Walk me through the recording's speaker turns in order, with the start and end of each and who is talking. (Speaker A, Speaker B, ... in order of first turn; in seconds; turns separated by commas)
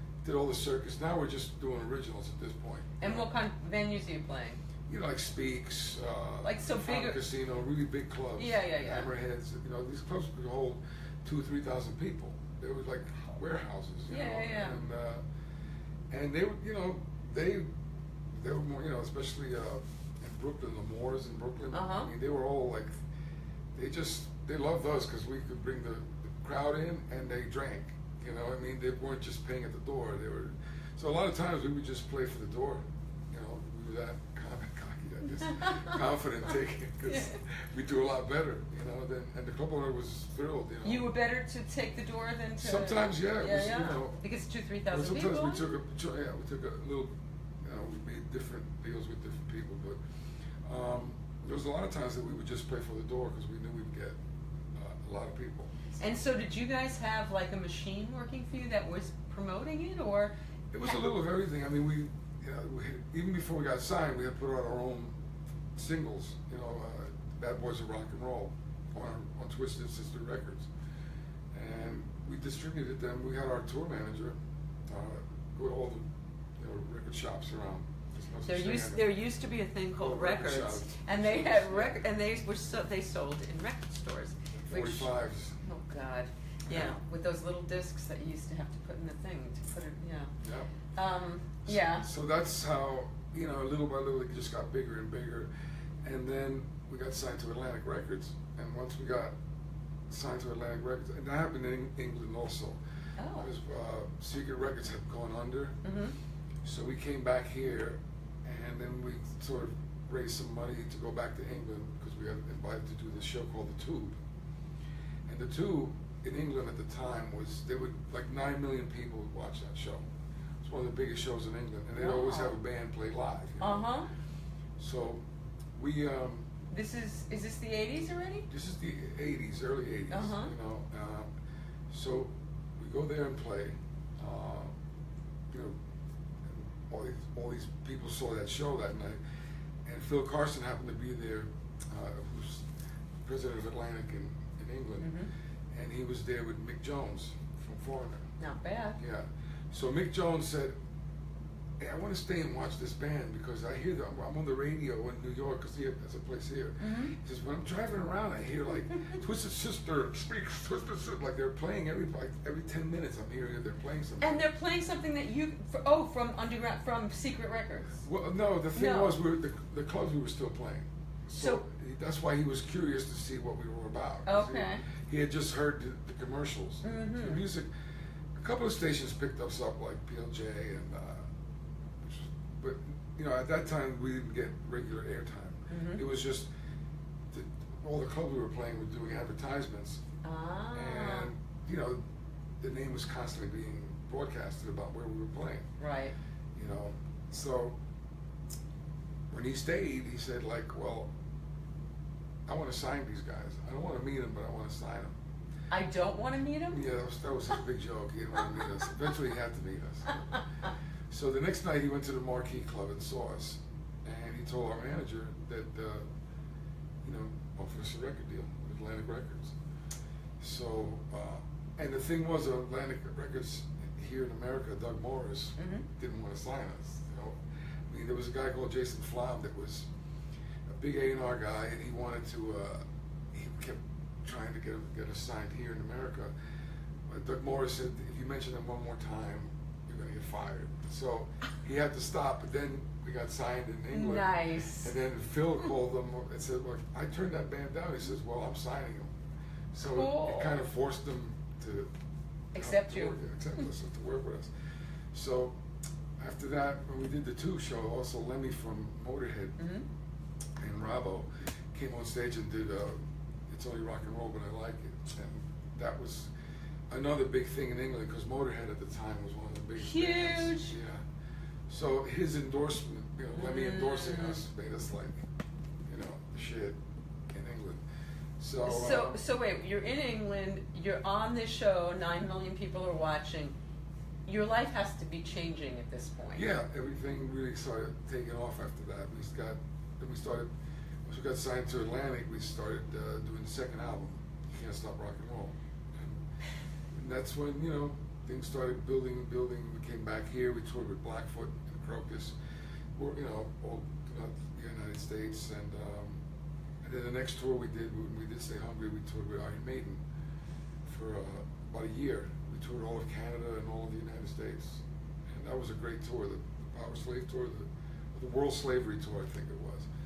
Speaker A: 0.2-3.3, Speaker B: 3.0-4.6, Speaker A: 4.9-15.2, Speaker B: 6.4-7.2, Speaker B: 8.4-9.1, Speaker B: 14.1-14.8, Speaker A: 16.1-17.7, Speaker A: 18.3-23.0, Speaker B: 21.7-22.1, Speaker A: 23.8-41.1, Speaker B: 37.0-37.4, Speaker B: 40.8-45.7, Speaker A: 42.6-44.2, Speaker A: 44.9-50.0, Speaker A: 50.6-54.2, Speaker A: 54.8-56.0, Speaker B: 56.0-60.3, Speaker A: 60.7-65.2, Speaker A: 65.8-70.7, Speaker A: 71.5-76.1, Speaker A: 76.6-79.2, Speaker B: 78.5-85.1, Speaker A: 80.0-82.0, Speaker A: 84.5-85.6, Speaker B: 85.6-90.3, Speaker A: 86.7-87.0, Speaker A: 90.4-90.7, Speaker B: 90.9-92.1, Speaker A: 91.7-95.5, Speaker A: 96.0-99.3, Speaker A: 100.1-102.8, Speaker B: 103.2-103.5, Speaker A: 103.3-105.8, Speaker B: 105.8-106.2, Speaker A: 106.6-114.2, Speaker A: 115.3-120.0, Speaker A: 120.6-123.9, Speaker B: 122.0-122.5, Speaker B: 123.6-124.1, Speaker A: 124.8-125.2, Speaker A: 125.8-126.5, Speaker B: 126.7-128.5, Speaker A: 128.5-131.3, Speaker B: 130.1-130.5, Speaker A: 131.9-134.7, Speaker A: 135.5-135.8, Speaker A: 136.9-139.2, Speaker A: 139.8-142.7, Speaker A: 143.2-145.2, Speaker B: 145.0-145.3, Speaker A: 145.7-148.3, Speaker B: 148.4-149.0, Speaker A: 149.0-150.8, Speaker A: 151.8-164.4, Speaker B: 156.8-157.1, Speaker B: 164.2-168.0, Speaker A: 168.0-177.7, Speaker B: 168.7-169.2, Speaker B: 171.3-171.6, Speaker B: 174.3-174.8, Speaker B: 176.8-177.4, Speaker A: 178.3-181.3, Speaker A: 182.0-186.5, Speaker B: 185.7-186.0, Speaker A: 187.3-190.0, Speaker B: 190.2-191.3, Speaker A: 190.7-192.0, Speaker A: 192.6-195.7, Speaker B: 195.8-196.2, Speaker A: 196.6-197.8, Speaker A: 199.3-201.1, Speaker A: 202.5-205.1, Speaker B: 205.7-206.8, Speaker A: 206.7-210.4, Speaker A: 211.1-216.1, Speaker A: 217.0-219.6, Speaker A: 220.4-227.4, Speaker B: 225.6-225.8, Speaker A: 227.9-229.9, Speaker A: 230.7-236.3, Speaker A: 237.1-249.1, Speaker B: 243.9-244.9, Speaker A: 249.7-251.9, Speaker B: 249.9-250.6, Speaker B: 252.6-253.2, Speaker A: 252.6-254.5, Speaker A: 255.1-255.6, Speaker A: 256.2-259.6, Speaker B: 259.6-259.9, Speaker A: 260.6-266.3, Speaker A: 266.9-271.0, Speaker B: 269.8-270.7, Speaker A: 271.7-275.2, Speaker B: 273.4-274.4, Speaker A: 275.9-276.8, Speaker A: 277.3-277.8, Speaker A: 278.4-279.2, Speaker B: 278.6-283.6, Speaker B: 284.3-286.5, Speaker A: 286.3-290.5, Speaker A: 291.1-296.2, Speaker A: 296.9-302.3, Speaker A: 302.9-306.2, Speaker A: 306.8-310.0, Speaker A: 310.9-319.9